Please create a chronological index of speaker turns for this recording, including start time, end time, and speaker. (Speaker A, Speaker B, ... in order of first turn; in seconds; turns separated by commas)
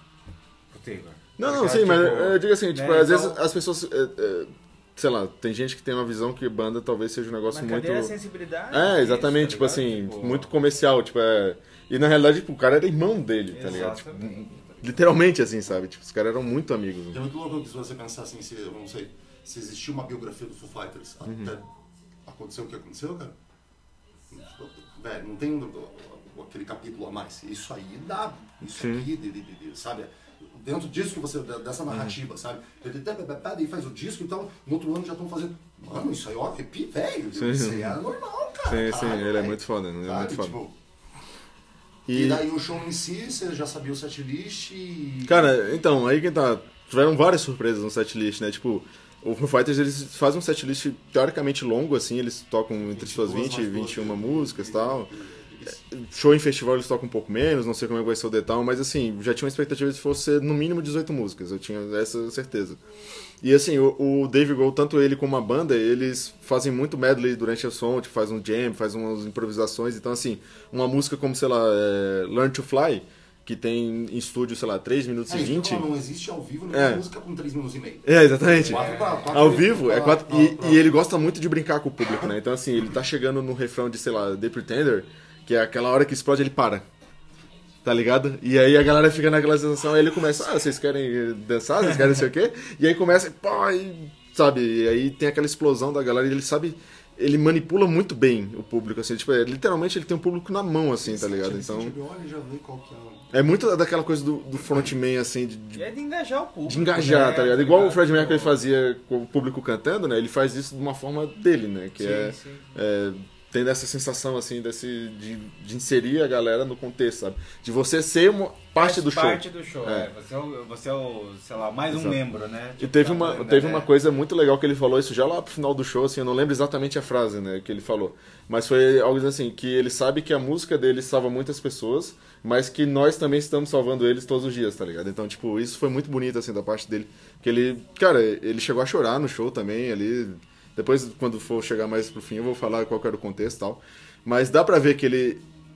Speaker A: 0.7-3.4, Speaker B: 1.4-8.1, Speaker A: 7.5-10.5, Speaker B: 8.7-17.2, Speaker A: 13.5-15.0, Speaker C: 17.1-21.7, Speaker B: 21.2-21.5, Speaker C: 22.2-23.4, Speaker C: 24.3-40.8, Speaker B: 28.6-29.1, Speaker B: 31.9-32.1, Speaker B: 37.4-38.0, Speaker B: 38.6-40.6, Speaker B: 42.1-42.5, Speaker C: 42.1-45.7, Speaker B: 45.2-55.1, Speaker C: 52.8-55.8, Speaker B: 55.8-62.8, Speaker B: 63.4-75.9, Speaker C: 75.3-80.9, Speaker B: 76.7-77.0, Speaker B: 78.0-86.8, Speaker A: 78.7-79.5, Speaker B: 87.8-102.0, Speaker C: 101.0-103.3, Speaker B: 103.3-105.8, Speaker A: 105.8-108.6, Speaker B: 106.7-120.1, Speaker A: 112.0-112.7, Speaker A: 118.8-123.9, Speaker B: 121.9-122.2, Speaker B: 122.8-145.4